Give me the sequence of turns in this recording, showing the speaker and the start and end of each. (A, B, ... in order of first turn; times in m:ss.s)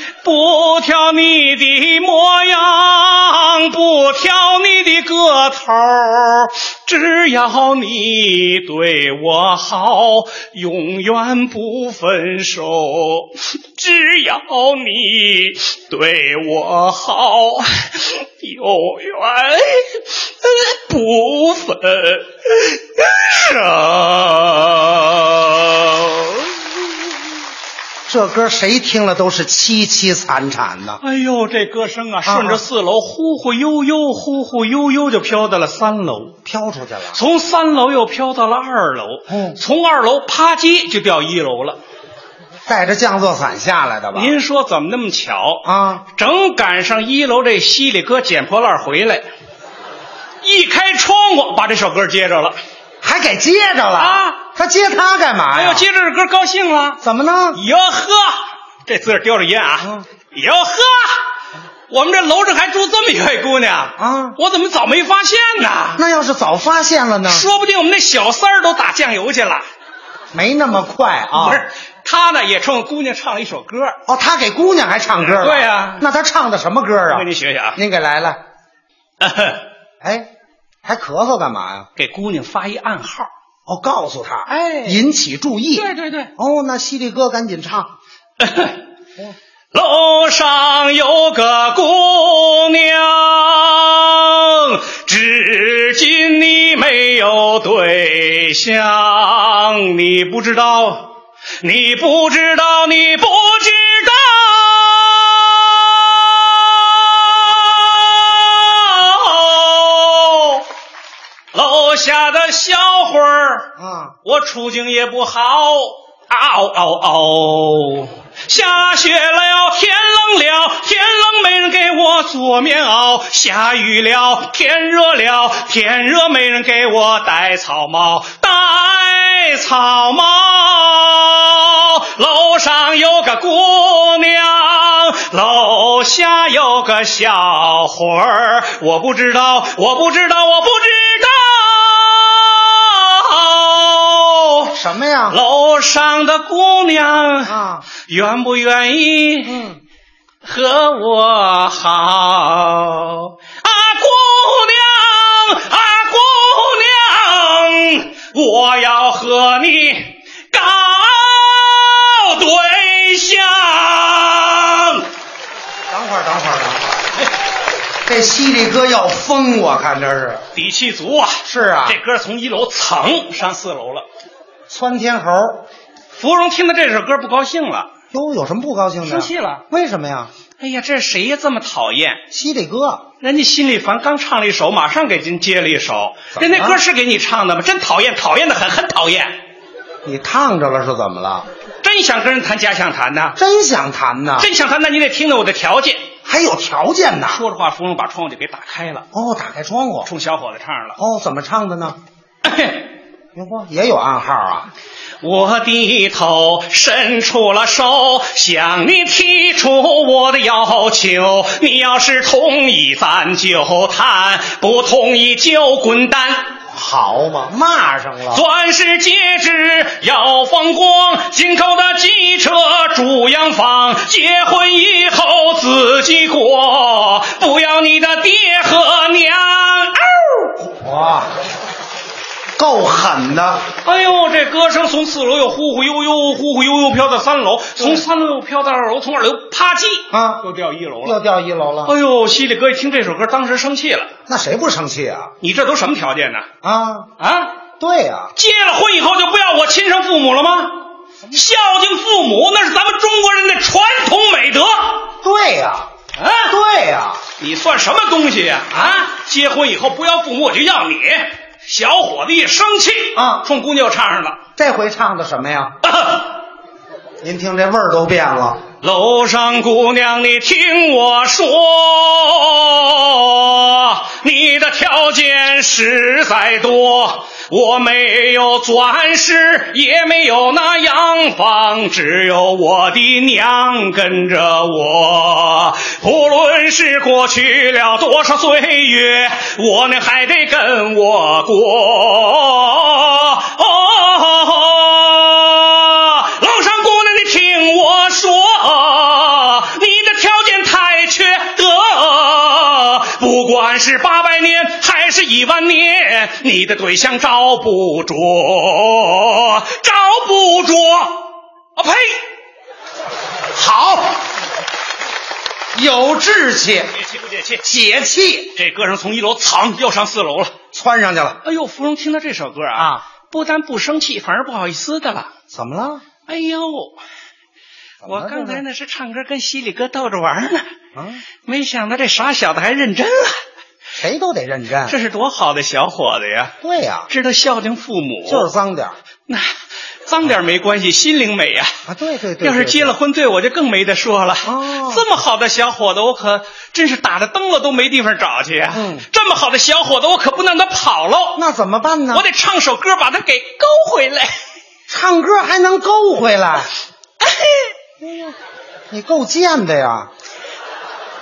0:00.2-0:26.8 A
0:28.1-0:31.0 B
0:31.0-0:36.4 A
0:32.2-0:32.6 B
0:36.4-0:37.2 B
0:37.1-0:41.8 A
0:39.3-0:39.6 B
0:42.6-0:44.3 B
0:44.1-0:49.3 A
0:45.6-0:46.0 B
0:50.4-0:52.6 A
0:53.0-0:55.8 B
0:54.0-0:54.4 A
0:55.5-0:57.0 A
0:57.0-0:57.6 B
0:57.5-1:01.2 A
0:59.8-1:00.0 B
1:01.9-1:06.0 A
1:04.0-1:04.4 B
1:05.9-1:07.5 B
1:07.2-1:09.6 A
1:10.3-1:11.6 B
1:11.3-1:14.0 A
1:14.1-1:18.4 B
1:15.2-1:16.0 A
1:17.1-1:17.8 A
1:19.2-1:19.6 A
1:20.0-1:20.3 B
1:20.8-1:21.9 B
1:22.0-1:23.3 A
1:23.6-1:27.9 B
1:24.5-1:25.0 A
1:25.7-1:26.3 A
1:28.4-1:28.8 A
1:29.7-1:50.6 A
1:51.5-1:53.7 A
1:53.8-1:54.2 B
1:54.2-2:24.7 A
2:24.7-2:25.4 B
2:25.3-2:29.6 A
2:27.4-2:27.8 B
2:29.4-2:29.8 B
2:30.4-2:45.0 A
2:45.9-2:47.0 B
2:48.0-2:50.4 B
2:50.5-2:54.0 A
2:51.4-2:52.0 B
2:54.7-2:55.6 B
2:56.1-2:57.9 A
2:58.1-3:00.3 B
2:59.0-2:59.6 A
3:00.6-3:02.2 A
3:02.3-3:03.0 B
3:03.2-3:09.3 A
3:06.3-3:06.8 B
3:10.0-3:11.5 B
3:11.8-3:13.4 A
3:13.4-3:14.5 B
3:14.4-3:16.0 A
3:16.2-3:17.4 B
3:17.3-3:19.0 A
3:19.1-3:20.1 B
3:20.0-3:21.0 A
3:21.0-3:22.0 B
3:22.4-3:22.9 A
3:23.3-3:24.7 B
3:25.2-3:36.5 A
3:36.7-3:38.4 B
3:38.3-3:50.6 A
3:50.7-3:51.3 B
3:52.6-3:53.6 B
3:53.8-4:01.2 A
3:57.8-3:58.0 B
4:00.1-4:00.4 B
4:01.0-4:01.9 B
4:01.8-4:04.1 A
4:04.3-4:05.3 B
4:05.4-4:06.5 A
4:06.6-4:07.1 B
4:07.2-4:07.6 A
4:07.8-4:08.3 B
4:08.3-4:10.8 A
4:11.3-4:15.0 A
4:15.2-4:15.9 B
4:16.2-4:16.5 A
4:16.5-4:17.2 B
4:17.4-4:24.4 A
4:23.1-4:23.4 B
4:24.6-4:25.7 B
4:25.8-4:26.3 A
4:27.2-4:28.6 B
4:28.8-5:12.2 A
5:13.6-5:14.1 A
5:15.7-5:16.9 B
5:17.0-5:17.6 A
5:17.6-5:18.5 B
5:18.5-5:20.5 A
5:20.7-5:21.4 B
5:21.4-5:25.3 A
5:22.7-5:23.0 B
5:25.5-5:26.0 B
5:26.2-5:27.0 A
5:28.0-5:28.6 B
5:28.1-5:30.6 A
5:30.9-5:31.2 B
5:31.4-5:33.3 A
5:34.0-5:35.0 B
5:34.9-5:36.5 A
5:36.6-5:37.1 B
5:37.1-5:38.5 A
5:38.2-5:39.0 B
5:39.3-5:39.5 A
5:40.0-5:41.7 A
5:41.8-5:42.9 B
5:42.4-5:51.4 A
5:44.4-5:45.0 B
5:48.7-5:49.0 B
5:51.3-5:52.2 B
5:52.1-5:54.4 A
5:54.9-5:56.7 B
5:57.2-5:57.7 A
5:58.0-5:58.3 B
5:58.9-6:00.1 B